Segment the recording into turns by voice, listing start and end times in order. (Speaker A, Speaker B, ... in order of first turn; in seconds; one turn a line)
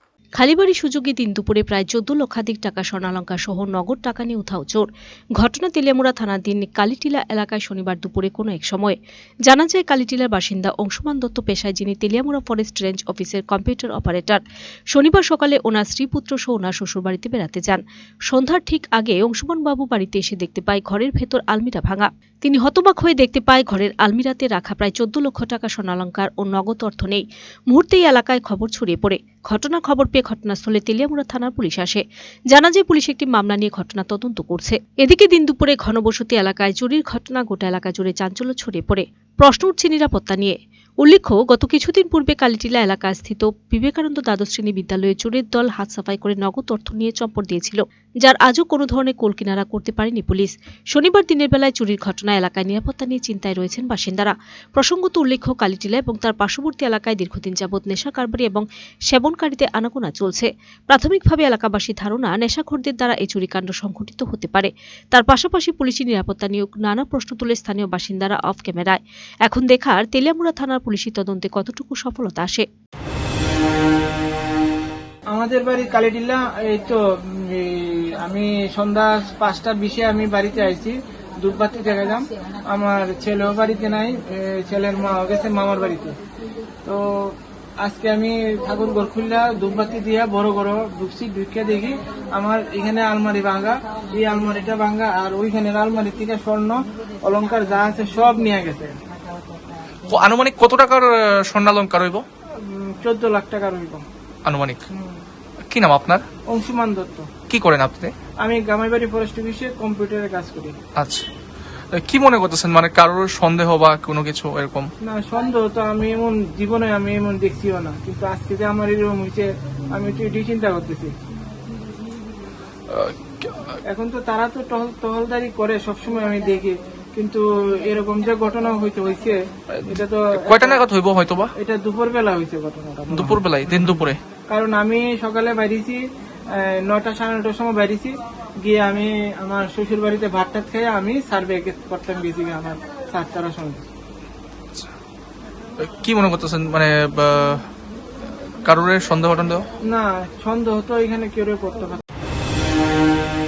Speaker A: 0.4-14.4
Speaker A: 14.9-72.7
Speaker B: 75.3-86.2
Speaker B: 86.8-98.9
Speaker C: 100.0-102.2
Speaker B: 102.6-104.0
Speaker C: 104.5-104.8
Speaker B: 104.9-105.2
Speaker C: 105.7-106.2
Speaker B: 106.5-107.3
Speaker C: 107.5-108.1
Speaker B: 108.4-110.8
Speaker C: 111.0-111.3
Speaker C: 111.9-114.9
Speaker B: 115.0-121.1
Speaker C: 122.9-123.8
Speaker B: 123.9-129.4
Speaker C: 129.7-131.5
Speaker B: 129.9-130.8
Speaker B: 131.6-133.9
Speaker C: 133.1-134.2
Speaker B: 134.5-136.0
Speaker B: 136.6-143.9
Speaker C: 145.8-147.7
Speaker C: 148.6-149.7
Speaker B: 149.9-152.0